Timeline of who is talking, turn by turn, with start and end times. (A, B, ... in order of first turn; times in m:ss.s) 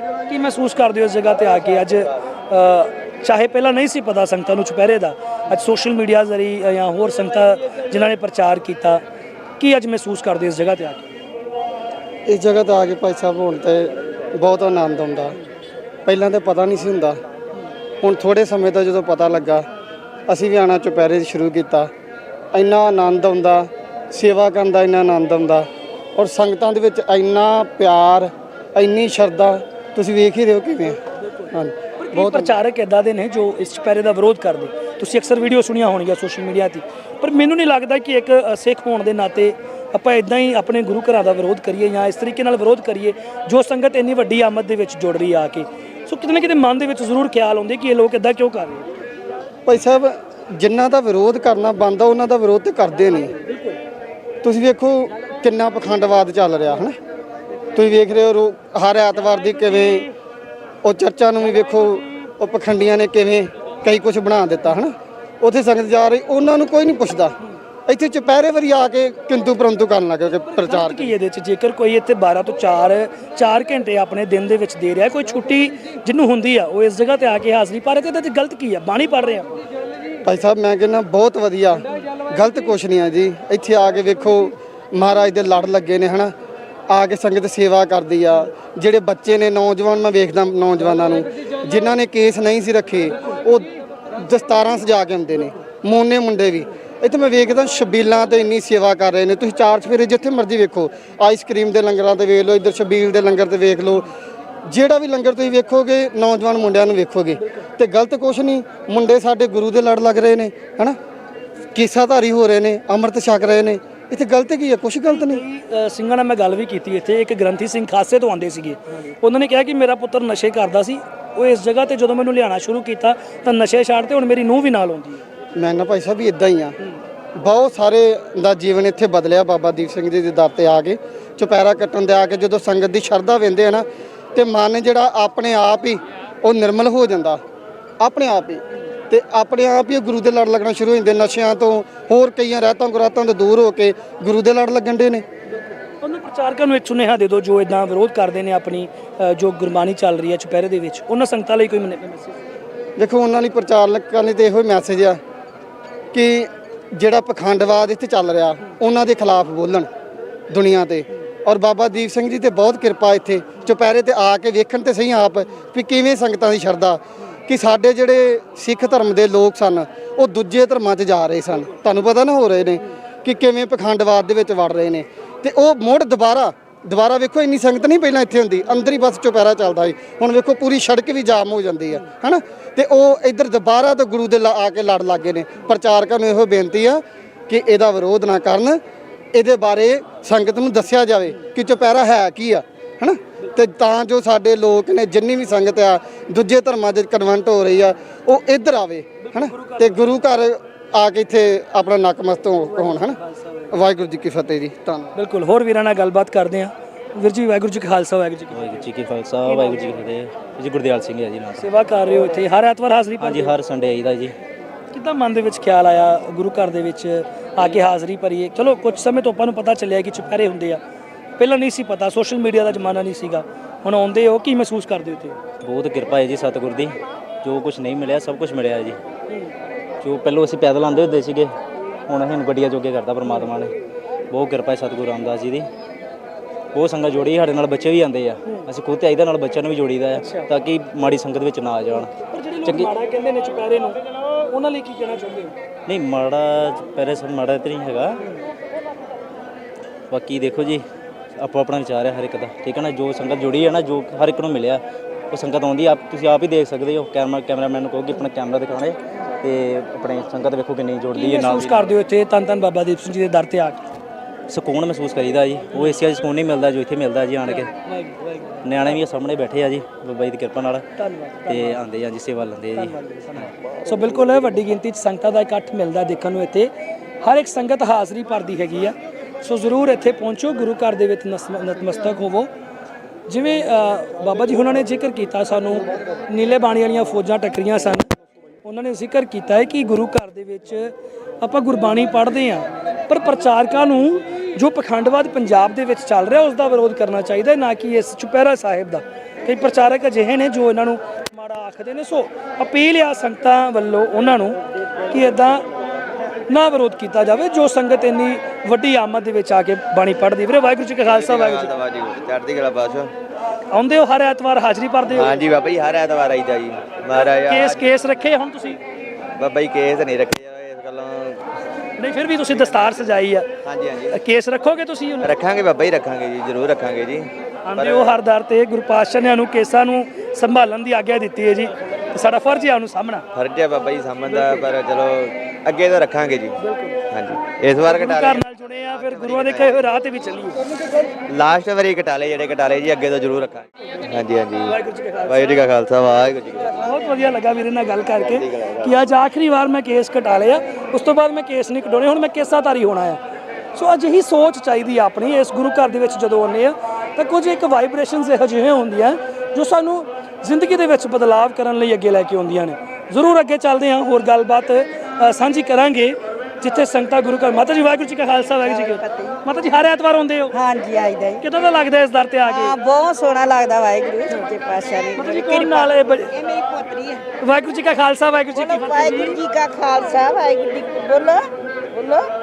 0:00.3-0:09.0 A
0:09.6-0:11.1 A
0:12.3-0:15.4 B
0:16.1-0:17.2 B
0:18.0-0:19.7 B
0:20.3-0:21.9 B
0:22.5-0:31.0 B
0:31.5-0:32.5 B
0:32.0-0:48.9 A
0:49.7-0:53.4 B
0:54.4-0:57.0 B
0:57.7-1:00.1 B
1:00.8-1:07.4 B
1:07.9-1:11.1 B
1:10.5-1:19.6 A
1:20.2-1:26.3 B
1:26.9-1:44.1 B
1:44.7-1:51.0 B
1:51.7-1:55.4 B
1:55.1-2:05.2 A
2:05.6-2:06.8 B
2:07.4-2:17.4 B
2:18.0-2:25.2 B
2:26.0-2:32.3 A
2:33.0-2:35.2 B
2:36.1-2:39.9 B
2:40.5-3:08.8 B
3:09.3-3:23.2 B
3:19.2-3:20.0 A
3:22.8-3:23.7 A
3:23.7-3:25.2 B
3:25.2-3:28.9 A
3:28.5-3:31.7 C
3:29.4-3:30.0 A
3:31.6-3:33.5 A
3:33.2-3:34.4 C
3:34.9-3:40.8 A
3:41.4-3:45.4 A
3:45.6-3:49.0 C
3:50.0-3:51.5 C
3:52.1-3:53.7 C
3:54.3-3:55.7 C
3:56.7-4:02.1 C
4:00.2-4:00.5 A
4:02.3-4:05.5 A
4:05.9-4:08.2 C
4:10.1-4:10.8 C
4:11.4-4:21.9 C
4:21.1-4:23.8 A
4:24.5-4:27.7 C
4:27.5-4:28.7 A
4:28.6-4:30.9 C
4:31.0-4:31.8 A
4:31.5-4:33.5 C
4:32.8-4:36.7 A
4:37.2-4:42.5 A
4:43.3-4:48.1 A
4:48.6-5:05.7 A
5:06.5-5:11.7 A
5:11.0-5:13.1 D
5:13.7-5:15.4 A
5:15.1-5:17.9 D
5:17.5-5:18.8 A
5:19.4-5:21.5 D
5:22.0-5:23.5 A
5:22.5-5:23.1 D
5:23.6-5:24.2 D
5:24.1-5:25.3 A
5:25.2-5:28.2 D
5:27.7-5:33.2 A
5:33.3-5:36.6 D
5:34.3-5:34.7 A
5:36.6-5:37.0 A
5:37.1-5:39.9 D
5:37.8-5:40.6 A
5:41.3-5:46.8 D
5:44.7-5:45.6 A
5:46.8-5:53.2 A
5:48.3-5:48.9 D
5:53.8-6:10.5 A
6:08.6-6:09.4 E
6:10.5-6:11.4 E
6:11.4-6:12.8 A
6:12.4-6:17.3 E
6:15.2-6:16.3 A
6:17.4-6:19.4 A
6:18.5-6:22.3 E